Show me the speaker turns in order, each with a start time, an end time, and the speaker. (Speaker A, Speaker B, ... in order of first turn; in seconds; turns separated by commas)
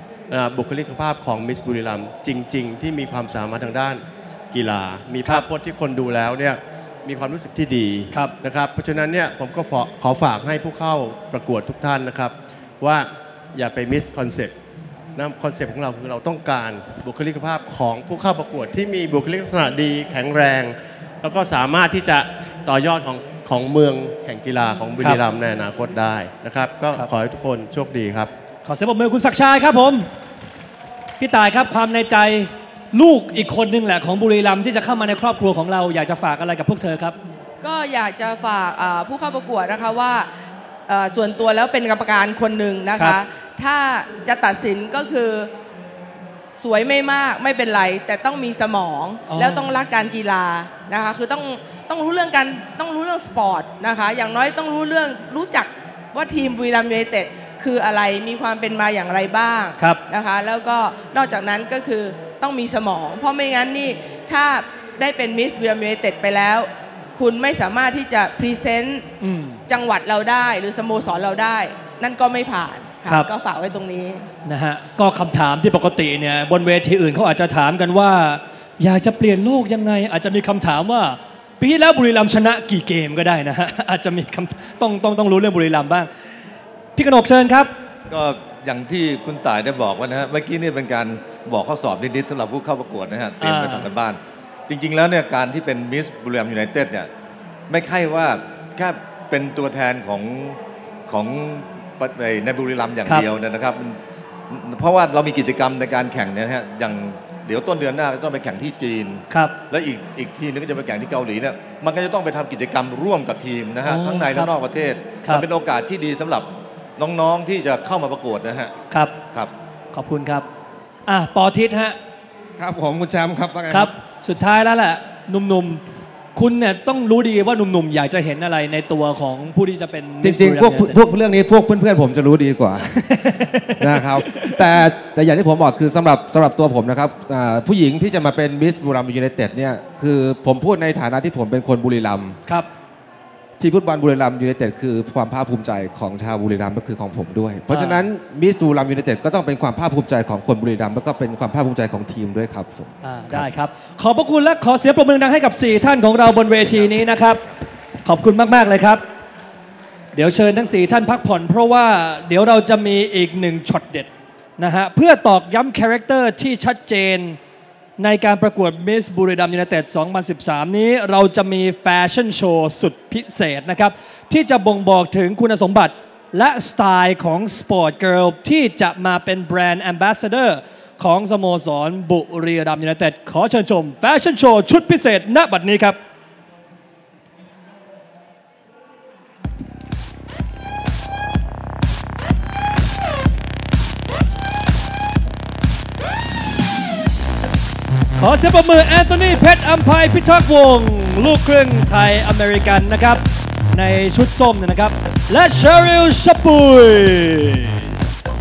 Speaker A: 0.3-14.5, Speaker A: 15.2-28.3, Speaker B: 28.6-30.1, Speaker B: 31.2-37.1, Speaker C: 37.6-40.3, Speaker C: 40.9-45.5, Speaker C: 46.5-69.0, Speaker B: 49.3-49.6, Speaker B: 69.2-69.6, Speaker C: 69.7-74.2, Speaker B: 74.4-86.1, Speaker B: 87.0-87.7, Speaker D: 88.1-94.2, Speaker B: 93.4-93.9, Speaker D: 94.7-97.1, Speaker D: 97.7-100.5, Speaker D: 101.1-103.8, Speaker D: 104.6-109.2, Speaker B: 109.3-109.5, Speaker D: 109.7-116.5, Speaker B: 113.8-114.5, Speaker D: 117.0-118.7, Speaker B: 118.9-119.2, Speaker B: 119.9-120.5, Speaker B: 121.0-122.0, Speaker E: 122.6-123.9, Speaker B: 123.7-125.8, Speaker B: 126.3-131.0, Speaker E: 130.2-132.9, Speaker B: 133.1-134.6, Speaker E: 133.8-142.4, Speaker E: 143.6-153.5, Speaker B: 147.7-148.0, Speaker B: 153.0-157.4, Speaker B: 158.0-159.0, Speaker B: 160.1-167.4, Speaker B: 168.0-186.0, Speaker B: 198.2-203.2, Speaker B: 203.7-207.9